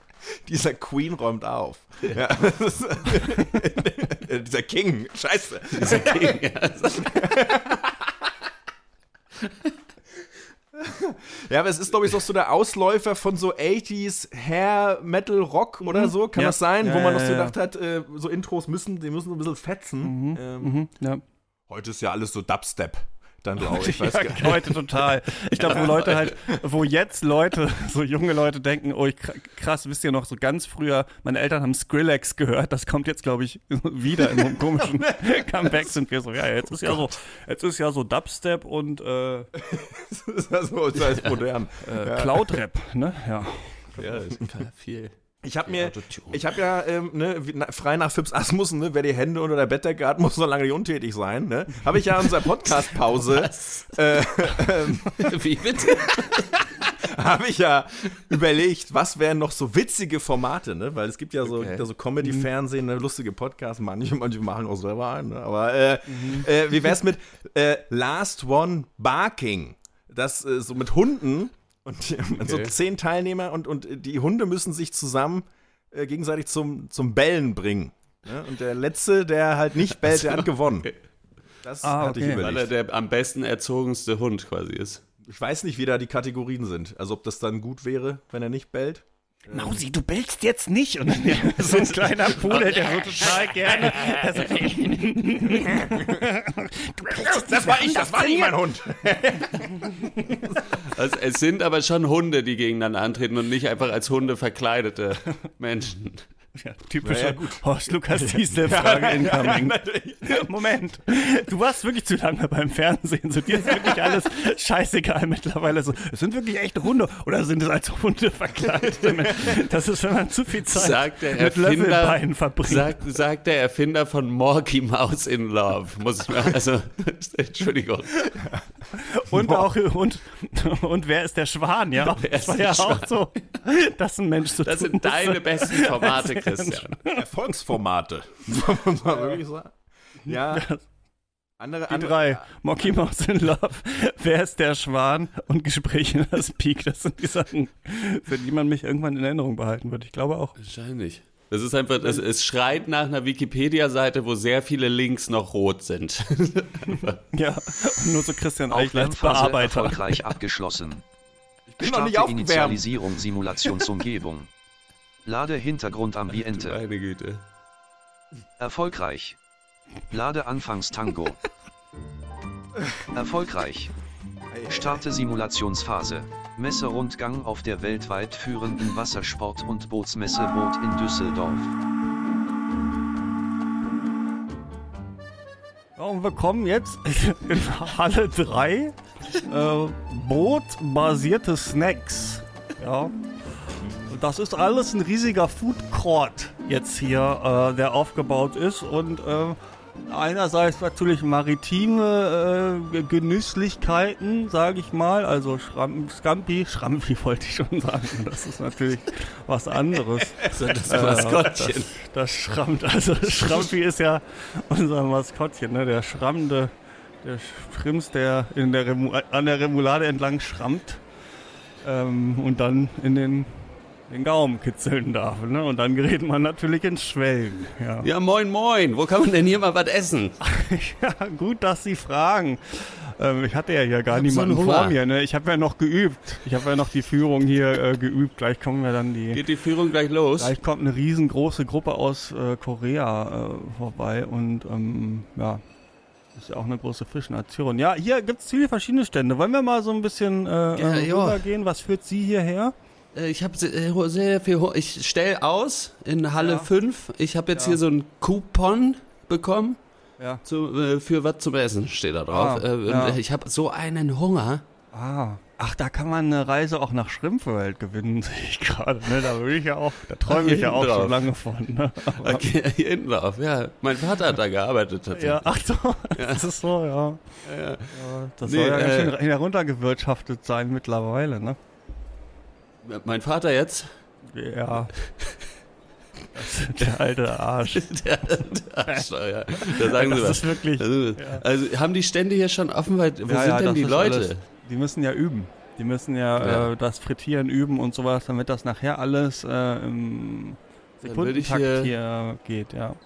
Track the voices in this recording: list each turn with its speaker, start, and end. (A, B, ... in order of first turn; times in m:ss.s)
0:00.4-0:06.4 A
0:05.7-0:07.6 B
0:07.0-0:07.9 A
0:10.7-0:20.8 A
0:15.8-0:17.5 C
0:20.0-0:21.2 C
0:21.7-0:24.8 A
0:23.6-0:39.5 C
0:25.5-0:26.3 B
0:25.6-0:26.4 A
0:34.8-0:35.8 A
0:39.6-0:42.5 A
0:41.0-0:41.4 B
0:41.8-0:44.0 C
0:44.0-0:45.1 B
0:44.0-0:44.5 A
0:45.4-1:20.9 A
0:45.6-0:46.6 B
0:52.7-0:54.1 B
0:55.1-0:56.6 B
1:01.4-1:01.9 B
1:06.1-1:06.4 C
1:12.4-1:12.7 B
1:20.1-1:20.4 B
1:21.6-1:22.7 A
1:21.8-1:22.4 C
1:22.3-1:25.0 B
1:25.3-1:29.8 A
1:29.5-1:38.6 C
1:31.6-1:34.9 B
1:37.2-1:40.7 A
1:39.8-1:40.2 C
1:40.6-1:46.2 B
1:46.6-2:03.0 C
1:47.0-1:50.5 A
2:00.6-2:08.3 B
2:08.9-2:17.2 C
2:09.3-2:09.7 A
2:12.0-2:13.2 B
2:14.6-2:17.0 B
2:17.1-2:19.7 A
2:20.2-2:20.7 A
2:20.3-2:20.8 C
2:21.6-2:22.4 A
2:21.9-2:30.6 C
2:30.6-2:37.2 B
2:36.9-2:40.2 C
2:38.7-2:41.0 D
2:41.7-2:42.8 A
2:41.8-2:44.5 D
2:45.2-2:46.8 D
2:46.3-2:47.4 B
2:48.6-2:49.4 D
2:50.1-2:51.4 D
2:53.1-2:53.9 D
2:54.5-2:55.0 A
2:54.7-3:01.7 D
3:06.0-3:13.1 C
3:14.1-3:36.7 C
3:30.4-3:31.9 B
3:37.2-3:41.0 C
3:41.8-3:48.1 C
3:48.0-3:50.4 B
3:50.4-3:59.4 C
3:54.1-3:55.0 B
3:59.3-4:00.5 B
4:00.4-4:05.6 C
4:06.3-4:12.7 C
4:10.7-4:11.4 B
4:13.1-4:19.8 B
4:16.4-4:16.7 C
4:17.5-4:17.8 C
4:20.4-4:24.6 B
4:22.3-4:23.2 C
4:24.9-4:32.4 C
4:30.3-4:31.3 B
4:32.1-4:35.5 B
4:35.1-4:37.2 C
4:36.1-4:36.5 B
4:37.4-4:39.2 B
4:37.9-4:41.6 C
4:42.8-4:43.9 B
4:44.3-4:44.9 C
4:45.0-4:45.4 B
4:46.3-4:47.9 C
4:47.7-4:54.4 B
4:48.9-4:51.4 C
4:53.3-5:03.0 C
4:56.4-4:56.7 B
5:01.0-5:01.9 B